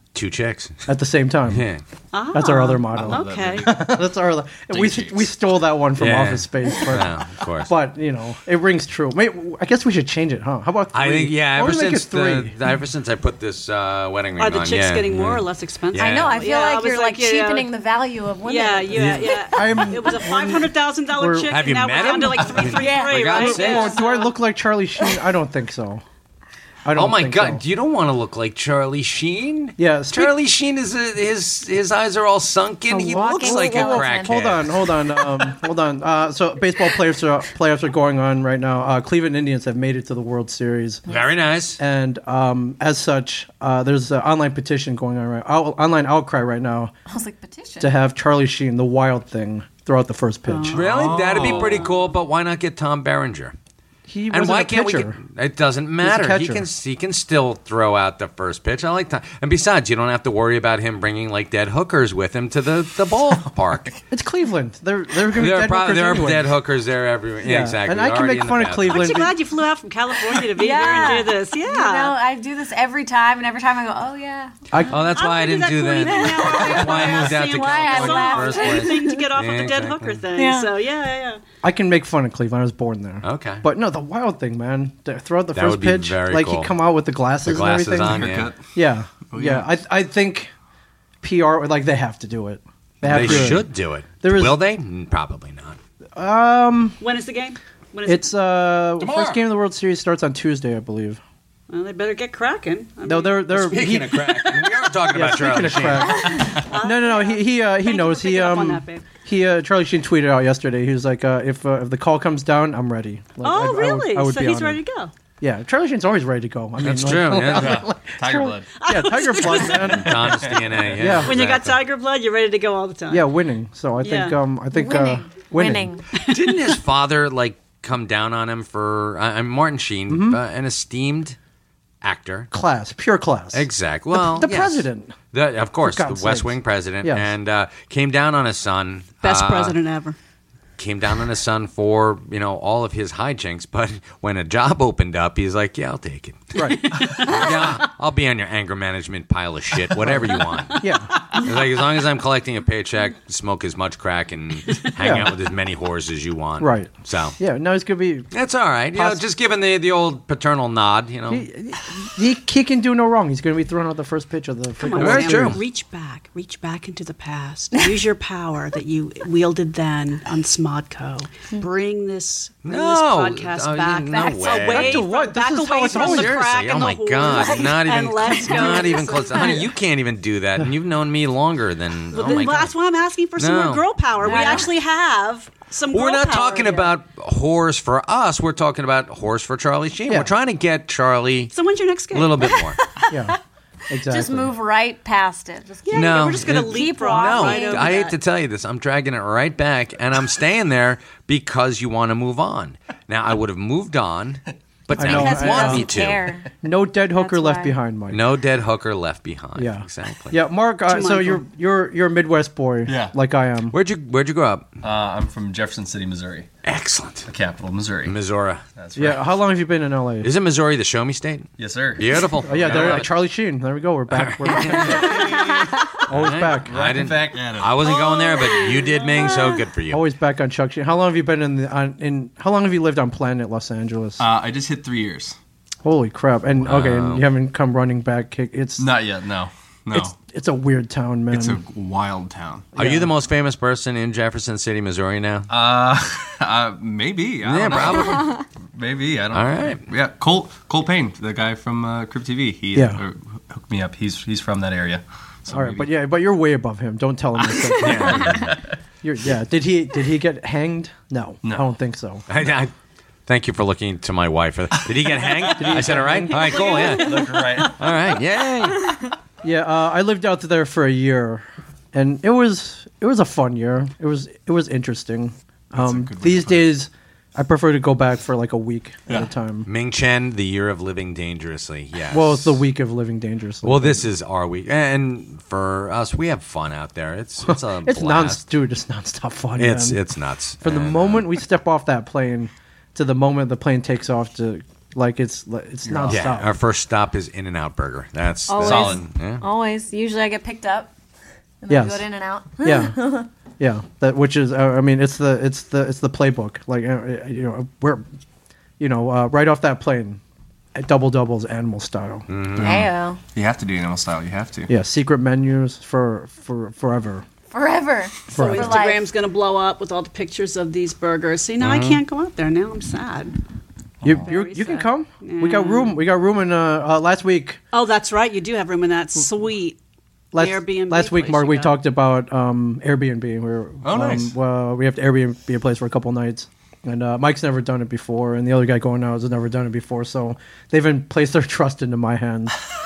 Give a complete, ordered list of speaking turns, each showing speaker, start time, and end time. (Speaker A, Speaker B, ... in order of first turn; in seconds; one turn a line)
Speaker A: 0.1-0.8
Speaker B: 0.9-1.7
Speaker A: 1.5-1.8
Speaker C: 2.1-3.7
Speaker B: 2.3-7.1
Speaker D: 2.9-4.1
Speaker D: 4.7-5.3
Speaker A: 6.0-7.7
Speaker B: 7.6-12.5
Speaker A: 10.9-16.4
Speaker C: 14.4-17.7
Speaker E: 16.0-19.9
Speaker C: 18.4-24.3
Speaker B: 18.9-21.5
Speaker A: 21.5-23.9
Speaker E: 22.6-23.4
Speaker B: 23.3-26.0
Speaker B: 26.9-27.6
Speaker A: 26.9-34.7
Speaker B: 29.8-30.4
Speaker E: 32.9-34.4
Speaker B: 33.4-41.0
Speaker A: 41.1-41.8
Speaker B: 41.8-46.9
Speaker E: 47.1-47.9
Speaker B: 47.8-50.8
Speaker C: 50.5-50.8
Speaker A: 50.7-53.5
Speaker D: 50.8-51.9
Speaker C: 51.4-51.9
Speaker B: 54.1-55.2
Speaker A: 54.3-63.9
Speaker B: 56.0-56.7
Speaker B: 64.1-66.5
Speaker A: 65.3-69.2
Speaker B: 67.4-69.3
Speaker C: 68.8-72.1
Speaker E: 70.6-74.5
Speaker B: 74.7-75.0
Speaker A: 74.9-80.2
Speaker C: 74.9-81.4
Speaker E: 76.0-79.2
Speaker E: 80.3-80.7
Speaker B: 81.6-90.5
Speaker A: 83.2-83.6
Speaker A: 85.5-86.8
Speaker A: 87.4-88.5
Speaker D: 88.0-88.7
Speaker D: 89.3-89.7
Speaker B: 91.2-93.7
Speaker A: 93.0-95.8
Speaker D: 93.1-93.6
Speaker B: 94.2-94.6
Speaker B: 96.2-97.0
Speaker C: 97.0-98.3
Speaker B: 98.1-101.2
Speaker A: 99.0-99.4
Speaker C: 101.7-103.7
Speaker B: 103.0-104.5
Speaker A: 103.5-106.3
Speaker B: 105.1-114.8
Speaker C: 106.5-109.1
Speaker C: 113.4-115.1
Speaker B: 115.4-120.4
Speaker A: 116.8-117.8
Speaker D: 117.5-118.7
Speaker C: 118.8-119.9
Speaker A: 119.7-121.8
Speaker D: 119.8-121.0
Speaker B: 121.0-121.3
Speaker C: 121.2-123.3
Speaker B: 123.1-125.9
Speaker C: 124.0-124.4
Speaker E: 124.7-126.1
Speaker C: 126.2-126.5
Speaker A: 126.2-131.4
Speaker B: 130.1-130.4
Speaker A: 132.0-132.5
Speaker B: 132.5-135.2
Speaker A: 133.5-139.8
Speaker B: 135.8-137.3
Speaker C: 139.2-140.2
Speaker A: 140.8-157.4
Speaker B: 146.6-146.9
Speaker C: 146.7-147.8
Speaker B: 150.0-151.1
Speaker B: 155.0-155.3
Speaker B: 156.6-158.3
Speaker A: 158.3-161.5
Speaker B: 158.9-159.2
Speaker B: 161.3-165.6
Speaker C: 164.8-179.6
Speaker A: 165.0-165.6
Speaker A: 172.7-175.1
Speaker B: 174.5-176.5
Speaker A: 175.9-182.7
Speaker E: 177.3-177.7
Speaker E: 178.3-178.8
Speaker C: 182.1-186.9
Speaker A: 183.4-183.8
Speaker E: 184.2-184.7
Speaker A: 185.9-191.5
Speaker B: 190.1-190.3
Speaker C: 191.5-192.6
Speaker A: 192.1-192.8
Speaker E: 192.8-193.1
Speaker B: 193.1-193.4
Speaker B: 193.9-194.6
Speaker E: 194.1-197.9
Speaker C: 195.8-198.2
Speaker A: 195.9-206.3
Speaker B: 204.9-205.9
Speaker E: 204.9-206.5
Speaker B: 206.6-208.2
Speaker E: 207.2-207.8
Speaker A: 208.1-210.4
Speaker B: 209.6-213.8
Speaker C: 210.9-211.4
Speaker D: 212.9-213.1
Speaker A: 213.7-214.7
Speaker D: 214.8-216.5
Speaker A: 216.6-217.3
Speaker D: 217.3-218.2
Speaker A: 218.0-218.6
Speaker D: 218.8-219.4
Speaker B: 219.0-220.3
Speaker A: 220.2-223.1
Speaker D: 221.6-223.1
Speaker B: 222.5-225.2
Speaker A: 224.1-230.0
Speaker D: 224.7-225.8
Speaker E: 225.2-225.7
Speaker B: 226.1-226.8
Speaker D: 226.7-227.9
Speaker E: 228.1-229.4
Speaker C: 228.4-229.2
Speaker B: 229.9-234.2
Speaker D: 234.2-235.4
Speaker B: 235.8-238.9
Speaker A: 236.6-237.3
Speaker D: 238.8-240.1
Speaker B: 239.9-241.6
Speaker D: 241.3-242.7
Speaker A: 242.8-245.5
Speaker B: 242.8-243.1
Speaker D: 245.5-255.9
Speaker A: 247.4-248.3
Speaker A: 249.3-249.8
Speaker B: 252.8-253.0
Speaker B: 255.5-258.5
Speaker D: 257.7-258.7
Speaker A: 257.8-258.6
Speaker B: 259.0-262.2
Speaker A: 262.3-262.7
Speaker A: 263.3-269.0
Speaker D: 265.2-267.9
Speaker B: 265.6-266.7
Speaker B: 269.4-279.7
Speaker D: 275.7-276.7
Speaker A: 279.7-282.6
Speaker B: 282.1-284.1
Speaker A: 283.6-288.4
Speaker B: 287.4-290.0
Speaker A: 289.6-291.3
Speaker B: 290.6-296.5
Speaker D: 295.9-296.3
Speaker A: 296.1-299.4
Speaker E: 298.5-300.9
Speaker D: 298.6-299.0
Speaker E: 301.6-303.3
Speaker B: 301.7-302.1
Speaker B: 302.6-308.1
Speaker B: 308.8-310.2
Speaker B: 310.8-312.3
Speaker A: 312.3-312.9
Speaker D: 312.6-314.7
Speaker E: 312.6-313.2
Speaker B: 314.7-317.2
Speaker E: 317.5-319.1
Speaker B: 318.3-318.8
Speaker C: 318.3-323.4
Speaker A: 321.6-322.0
Speaker B: 324.0-327.6
Speaker C: 324.2-326.0
Speaker C: 327.7-329.8
Speaker B: 330.3-342.6
Speaker C: 330.4-331.8
Speaker D: 333.8-334.3